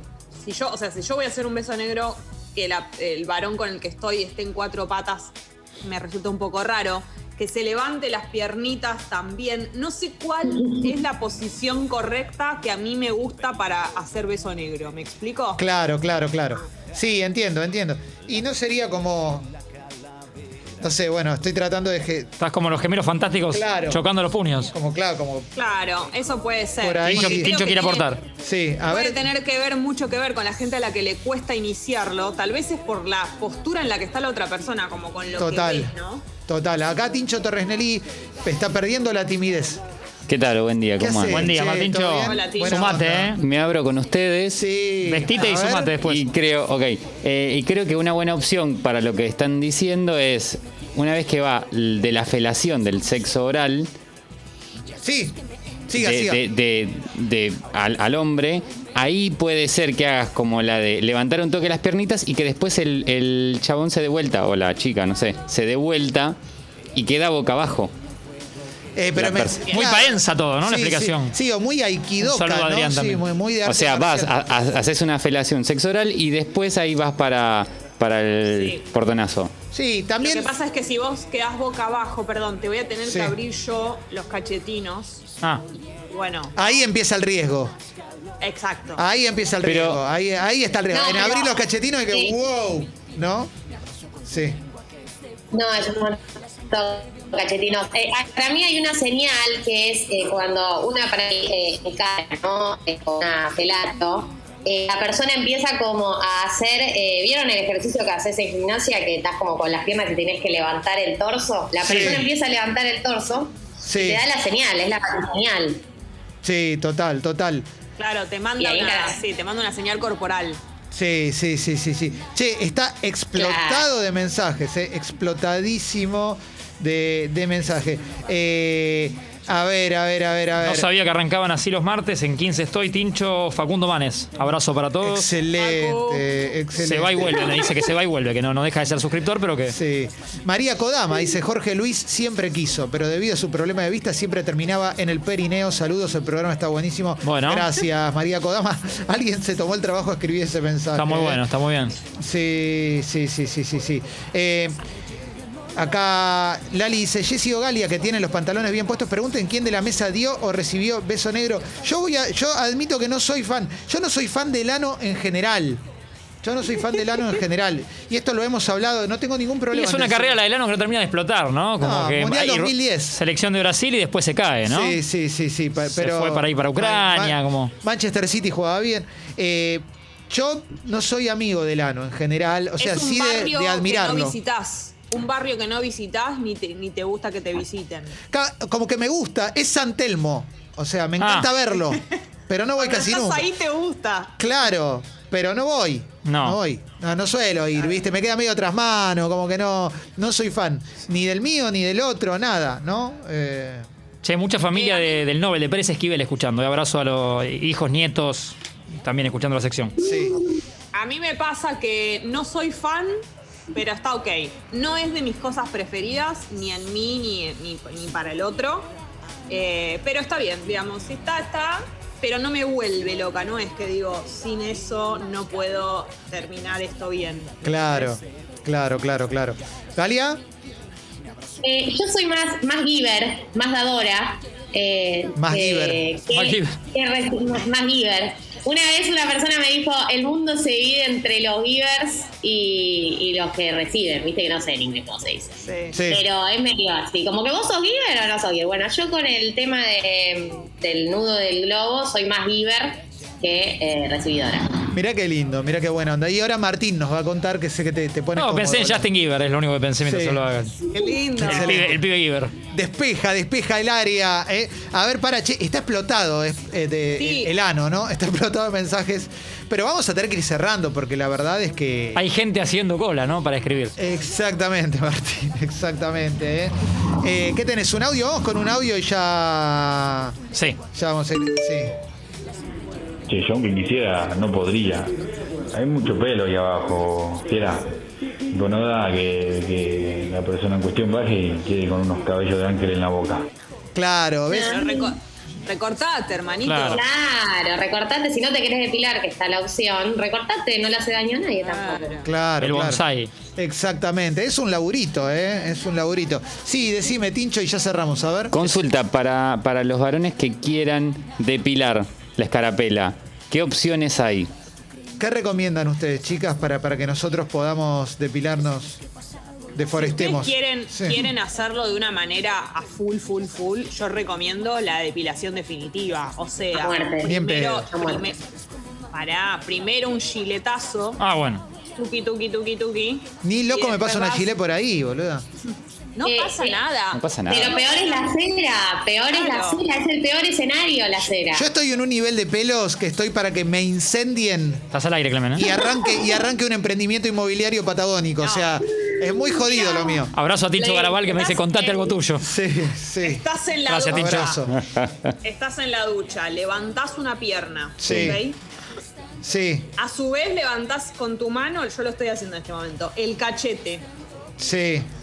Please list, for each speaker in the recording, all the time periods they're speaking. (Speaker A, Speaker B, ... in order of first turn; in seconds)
Speaker A: 0.4-15.6, 25.5-28.1, 28.9-36.2, 42.2-43.0, 69.6-69.9, 78.5-78.8, 80.2-85.2, 86.1-86.8, 88.4-89.0, 118.0-120.6, 135.6-136.2, 182.8-188.2, 191.8-192.2, 192.8-194.3, 204.7-205.2, 210.9-213.2, 213.7-218.9, 219.5-228.2, 245.6-245.9, 260.9-261.8, 267.2-267.5, 294.5-297.0, 301.6-302.3, 319.9-328.4, 329.1-331.2, 331.9-334.5, 336.1-338.3, 339.3-339.8, 348.4-348.7, 349.7-350.2, 350.8-352.2, 353.2-354.6, 355.4-358.6, 360.0-364.0
Speaker B: 15.6-19.5, 20.8-22.3, 23.5-24.0, 24.7-25.5, 26.8-27.5, 28.4-29.3, 35.4-35.9, 36.5-39.8, 41.0-43.4, 44.5-46.0, 55.0-55.4, 55.9-56.4, 69.0-74.4, 79.7-80.5, 83.0-83.3, 86.5-87.7, 89.0-93.5, 94.2-94.6, 111.8-112.3, 113.8-114.2, 116.4-117.7, 120.9-130.9, 135.0-137.5, 139.7-151.4, 152.2-154.8, 155.8-165.8, 166.4-170.4, 171.8-173.2, 174.6-184.4, 188.3-193.5, 194.4-203.9, 210.0-210.4, 227.6-230.4, 235.3-236.0, 245.9-246.2, 254.9-259.1, 260.0-260.4, 260.9-262.0, 262.7-272.2, 273.9-280.4, 280.9-281.9, 293.9-294.8, 302.2-303.0, 303.5-308.8, 315.2-319.0, 319.7-321.3, 327.2-327.9, 333.4-335.4, 341.5-344.9, 345.5-350.3, 352.4-353.4, 354.1-354.8, 358.0-358.4, 359.4-359.9, 364.6-365.1
Speaker C: 22.4-24.7, 27.1-28.2, 41.3-43.4, 45.0-46.2, 69.7-71.3, 72.2-73.2, 111.8-112.3, 130.6-135.3, 136.8-139.7, 147.2-147.7, 150.9-151.9, 169.7-175.0, 175.9-177.7, 191.2-191.5, 196.2-196.6, 204.2-209.9, 236.3-236.7, 258.4-260.7, 261.4-262.5, 272.1-273.9, 296.6-297.0, 302.6-303.3, 331.2-331.6, 344.9-345.7, 350.3-352.5, 353.9-354.5
Speaker D: 40.3-41.5, 43.4-44.6, 46.0-53.9, 55.9-66.4, 66.9-67.9, 69.2-69.6, 73.6-79.5, 89.7-90.0, 308.5-314.5, 337.1-337.8, 354.7-355.3, 358.1-358.4
Speaker E: 90.9-92.3, 95.5-115.8, 118.6-119.2, 123.3-123.8, 231.6-254.9, 294.6-295.1, 296.9-302.2, 326.7-328.3, 336.2-336.8, 337.5-341.7, 345.8-346.3, 349.3-350.1, 350.8-351.4
Speaker F: 283.3-285.2, 285.7-287.9, 288.5-293.5